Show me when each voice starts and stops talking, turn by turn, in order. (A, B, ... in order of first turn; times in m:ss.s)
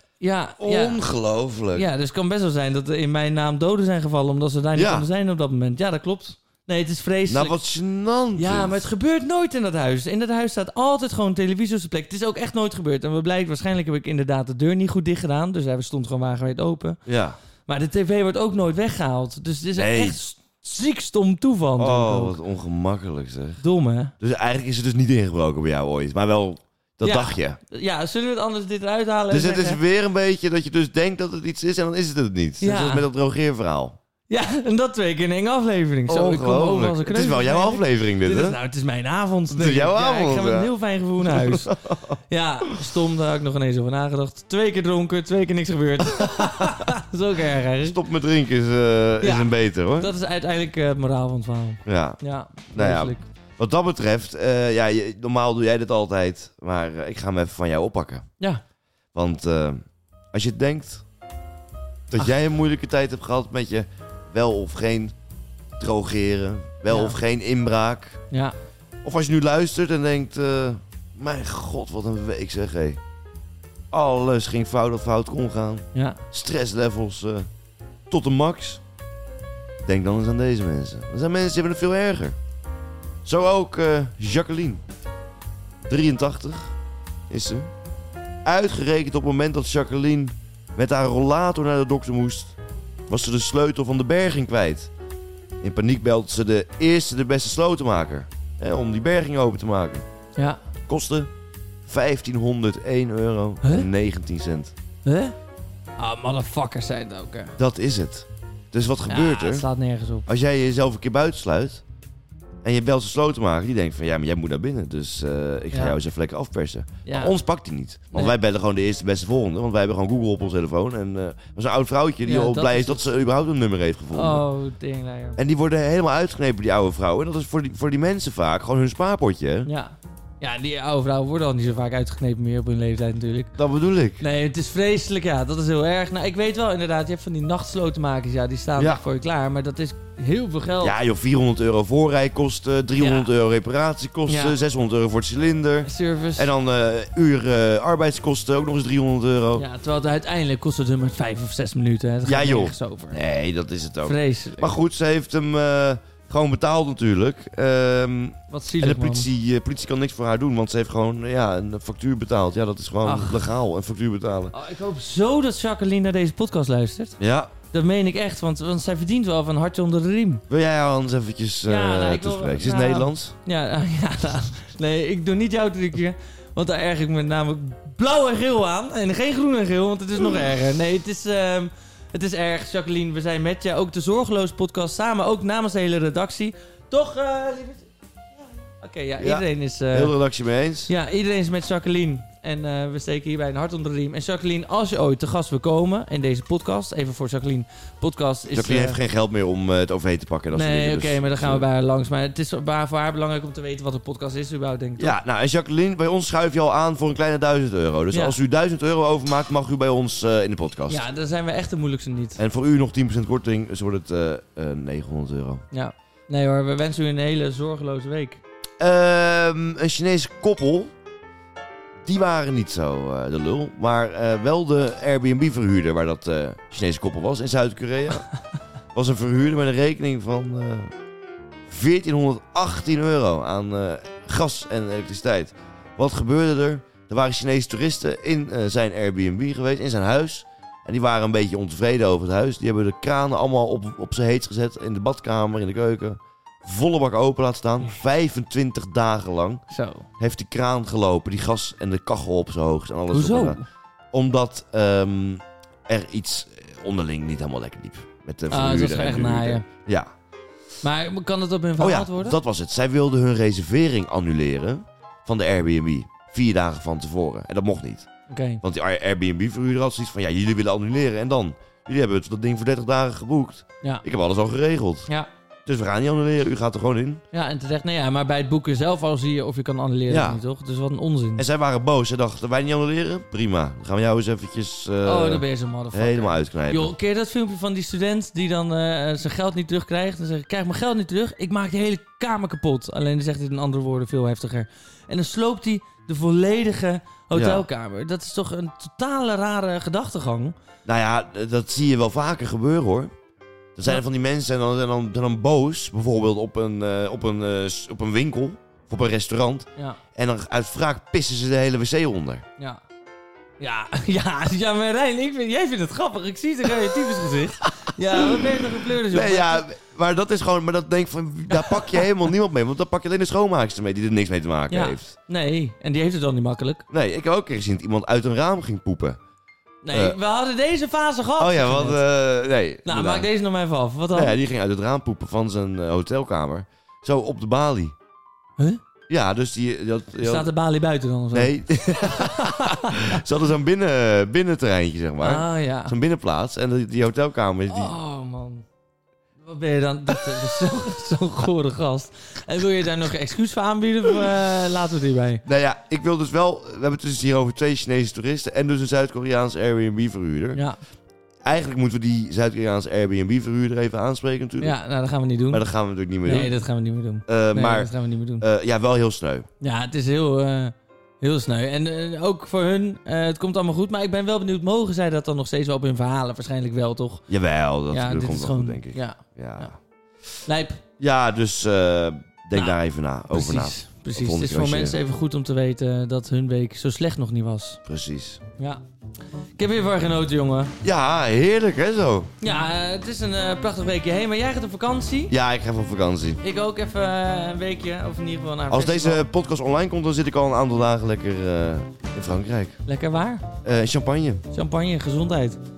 0:00.2-0:01.0 A
0:00.6-0:01.9 B
0:01.7-0:07.6 A
0:04.8-0:05.1 B
0:07.3-0:08.8 B
0:08.4-0:17.0 A
0:17.1-0:17.4 B
0:17.7-0:22.4 A
0:19.8-0:20.2 B
0:21.8-0:23.6 B
0:23.6-0:24.1 A
0:24.2-0:27.6 B
0:27.0-0:29.8 A
0:29.3-0:34.0 B
0:32.6-0:33.1 A
0:34.3-0:41.8 A
0:36.1-0:38.6 B
0:39.5-0:42.2 B
0:42.3-0:48.0 A
0:46.2-0:46.8 B
0:47.8-0:50.1 B
0:49.2-0:53.2 A
0:51.9-0:58.3 B
0:59.1-1:01.0 B
1:02.1-1:05.1 B
1:05.8-1:08.2 B
1:06.9-1:07.2 A
1:09.0-1:13.0 B
1:13.9-1:17.5 B
1:15.9-1:16.2 A
1:18.1-1:18.8 B
1:19.8-1:22.4 B
1:23.2-1:24.8 B
1:25.9-1:26.8 B
1:27.3-1:27.7 B
1:28.4-1:32.6 B
1:33.1-1:34.9 B
1:35.6-1:40.0 B
1:40.9-1:41.3 B
1:41.9-1:44.7 B
1:45.1-1:45.4 A
1:46.0-1:47.6 A
1:47.6-1:49.6 B
1:49.1-1:50.3 A
1:50.3-1:51.8 B
1:52.6-2:04.4 B
1:55.7-1:56.0 A
1:57.1-1:57.4 A
2:02.2-2:03.1 A
2:04.1-2:05.4 A
2:05.4-2:09.7 B
2:09.6-2:13.6 A
2:13.6-2:14.2 B
2:14.2-2:21.0 A
2:18.8-2:19.0 B
2:20.8-2:29.6 B
2:23.0-2:23.3 A
2:24.3-2:24.6 A
2:25.8-2:26.5 A
2:29.6-2:33.2 A
2:32.3-2:44.5 B
2:34.0-2:34.7 A
2:38.5-2:39.3 A
2:43.0-2:43.5 A
2:44.5-2:47.2 A
2:47.2-2:47.5 B
2:47.7-2:50.4 A
2:50.5-2:53.3 B
2:51.6-3:07.9 A
3:08.8-3:10.1 A
3:09.2-3:10.9 B
3:10.9-3:19.0 A
3:18.5-3:21.6 B
3:20.5-3:25.2 A
3:25.0-3:31.0 B
3:30.9-3:32.4 A
3:32.4-3:35.6 B
3:35.7-3:38.4 A
3:38.8-3:40.9 B
3:42.0-3:48.3 B
3:48.9-3:50.9 B
3:51.7-4:09.6 B
4:09.7-4:10.1 A
4:10.2-4:13.6 B
4:13.1-4:13.6 A
4:14.1-4:20.1 B
4:18.5-4:19.6 A
4:20.8-4:22.4 A
4:21.8-4:28.1 B
4:28.3-4:28.6 A
4:28.6-4:35.1 B
4:35.6-4:37.2 B
4:37.3-4:41.4 A
4:40.1-4:40.4 B
4:41.4-4:46.9 B
4:45.0-5:00.6 A
4:57.3-4:57.6 B
5:00.8-5:03.1 B
5:03.8-5:12.4 B
5:13.6-5:19.6 A
5:18.2-5:25.1 B
5:21.5-5:22.1 A
5:24.7-5:26.8 A
5:26.9-5:29.2 B
5:29.8-5:32.0 A
5:29.9-5:30.2 B
5:31.4-5:33.3 B
5:32.8-5:34.4 A
5:34.1-5:37.9 B
5:39.1-5:40.5 B
5:40.2-5:43.2 A
5:41.3-5:47.9 B
5:45.2-5:45.9 A
5:47.7-5:48.6 A
5:49.4-5:55.4 A
5:55.4-6:00.6 B
6:01.4-6:04.8 B
6:04.6-6:05.6 A
6:05.5-6:06.6 B
6:06.2-6:08.4 A
6:07.3-6:09.5 B
6:09.6-6:17.3 A
6:17.3-6:19.7 B
6:17.9-6:19.7 A
6:20.4-6:20.8 A
6:21.0-6:25.0 B
6:23.3-6:27.8 A
6:27.9-6:28.4 B
6:29.6-6:30.7 A
6:30.8-6:32.3 B
6:32.4-6:35.3 A
6:35.3-6:36.4 B
6:36.4-6:39.2 A
6:38.7-6:42.8 B
6:42.9-6:43.4 A
6:43.6-6:44.4 B
6:44.5-6:45.6 A